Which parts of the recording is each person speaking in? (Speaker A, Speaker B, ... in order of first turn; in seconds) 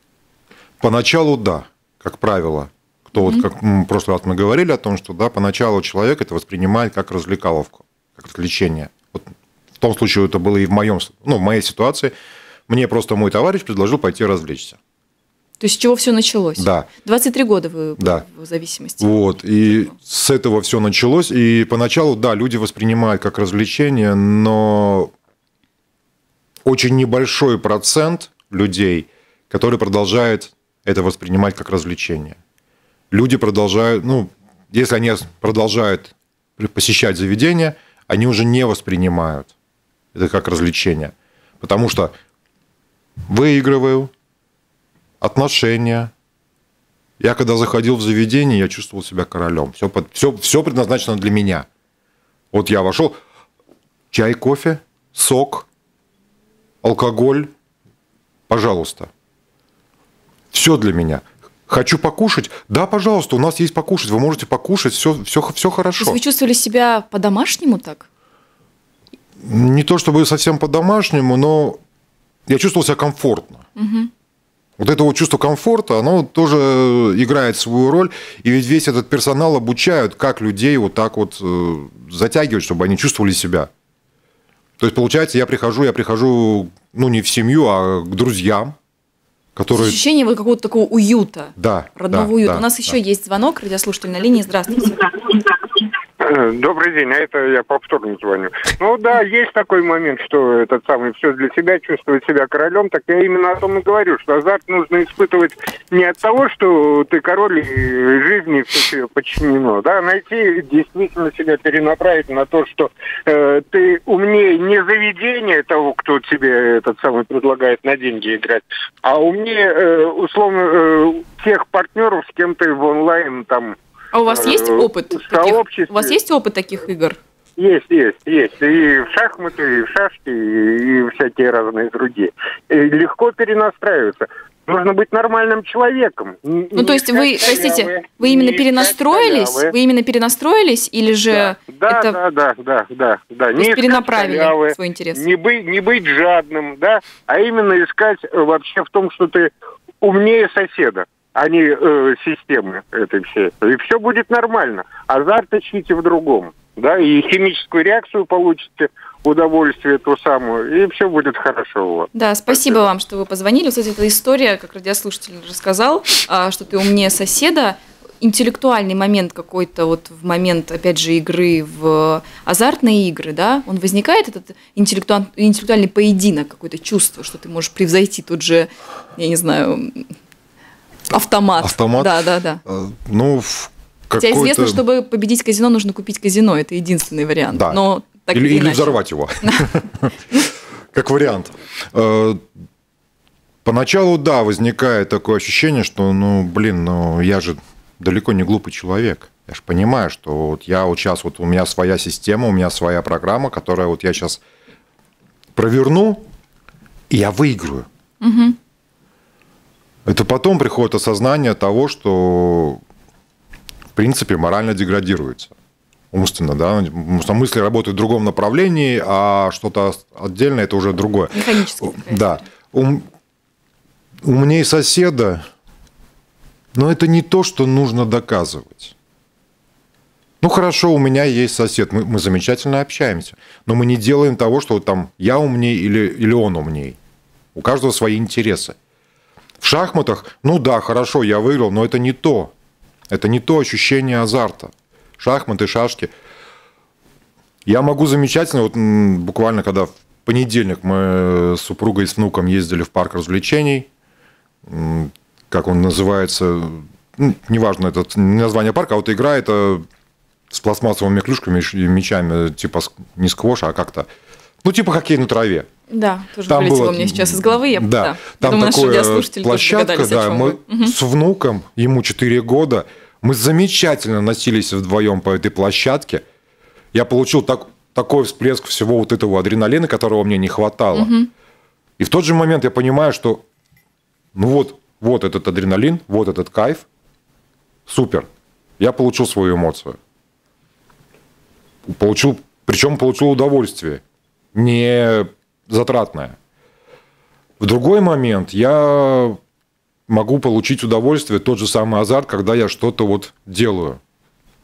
Speaker A: 0.8-12.1, 12.7-14.8, 16.6-16.9, 18.0-18.2, 19.0-25.1, 26.6-32.4, 33.1-39.5, 40.1-42.1, 43.3-44.1, 45.2-46.1, 47.2-51.7, 52.5-53.2, 54.1-55.7, 56.8-57.5, 58.5-59.1, 60.5-66.2, 69.4-71.8, 72.5-73.6, 74.8-83.7, 84.8-88.8, 89.6-90.0, 91.6-92.9, 181.6-182.1, 182.7-184.8, 187.5-187.8, 188.3-190.1, 190.9-192.5, 193.7-204.4, 205.6-206.2, 207.1-207.9, 210.1-212.8, 214.0-215.5, 216.1-223.1, 224.2-225.5, 226.7-228.9, 230.4-237.0, 237.6-238.8, 239.6-242.5, 243.1-246.1, 247.7-253.9, 254.7-259.9, 260.5-264.1, 264.6-265.7, 266.5-276.2, 276.9-281.1, 282.0-283.4, 284.3-286.9, 287.9-288.3, 288.8-290.0, 291.9-294.0, 294.5-296.4, 297.6-299.4, 300.1-304.0
Speaker B: 3.2-3.4, 15.6-19.9, 66.0-68.1, 73.8-74.1, 89.7-95.0, 124.1-127.2, 136.8-142.2, 143.6-145.2, 162.1-180.1, 181.1-182.6, 184.2-189.7, 208.2-208.6, 221.3-222.5, 265.9-270.9, 280.9-281.3
Speaker C: 96.2-123.8, 124.3-126.2, 127.6-139.7, 141.3-149.5, 150.0-162.8